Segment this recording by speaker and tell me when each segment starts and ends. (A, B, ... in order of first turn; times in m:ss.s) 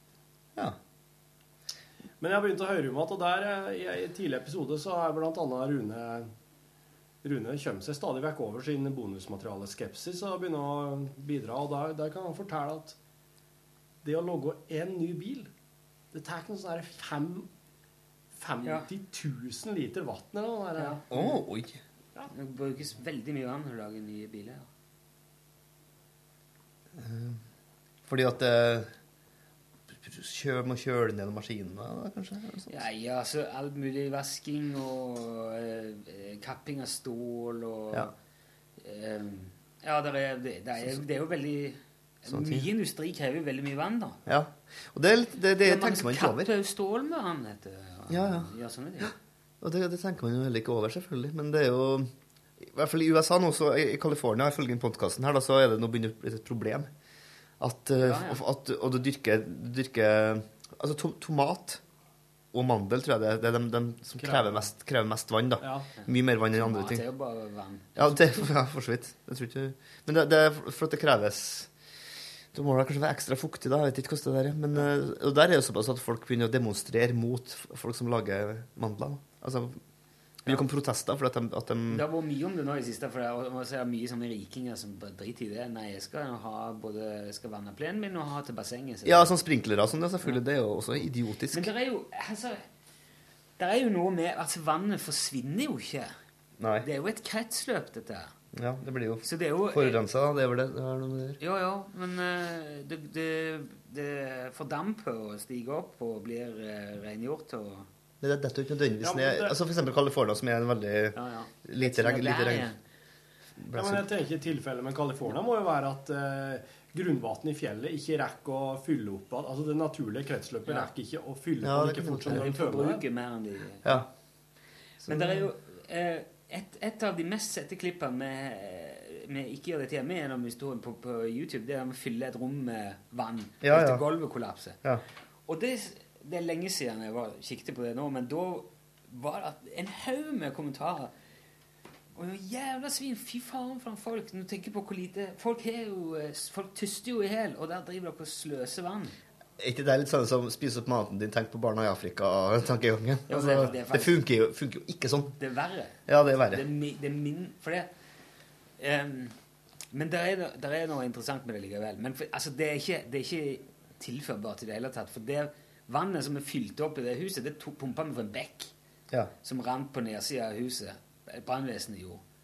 0:02.2-0:06.3 A
0:07.2-0:13.0 A
0:14.0-0:15.5 A
0:16.1-0:17.5 A
0:18.3-0:21.0 A
0:20.8-0:21.4 B
0:21.1-0:21.8 C
0:22.3-0:24.7 B
0:27.0-0:27.4 C
0:28.1-0:28.9 C
0:30.0-0:32.7 C
0:32.7-0:38.1 B
0:38.8-0:44.2 B
0:42.3-0:42.7 C
0:44.2-0:46.5 C
0:45.6-0:49.1 B
0:48.1-0:52.1 C
0:52.6-0:56.9 C
0:57.6-1:01.8 C
0:58.0-0:58.4 B
1:02.5-1:07.0 C
1:04.2-1:04.7 A
1:05.6-1:05.9 A
1:06.0-1:08.5 B
1:08.0-1:11.7 C
1:12.5-1:19.8 C
1:20.4-1:22.0 C
1:21.9-1:29.4 B
1:29.0-1:31.7 C
1:31.5-1:32.6 B
1:33.6-1:36.1 B
1:36.6-1:36.9 C
1:36.8-1:38.3 B
1:38.5-1:41.4 C
1:39.2-1:40.0 B
1:41.4-1:47.9 B
1:48.2-1:52.7 C
1:49.0-1:49.6 A
1:51.1-1:52.8 B
1:53.6-1:54.0 C
1:53.7-2:03.0 A
2:01.6-2:02.5 C
2:02.3-2:04.0 B
2:05.0-2:05.4 C
2:05.1-2:14.8 B
2:13.6-2:14.0 C
2:15.5-2:21.1 B
2:22.1-2:29.1 B
2:29.6-2:35.4 C
2:33.3-2:34.2 B
2:35.4-2:36.0 B
2:36.1-2:36.6 C
2:36.5-2:37.9 B
2:38.8-2:39.3 B
2:39.9-2:48.7 B
2:49.4-2:52.2 B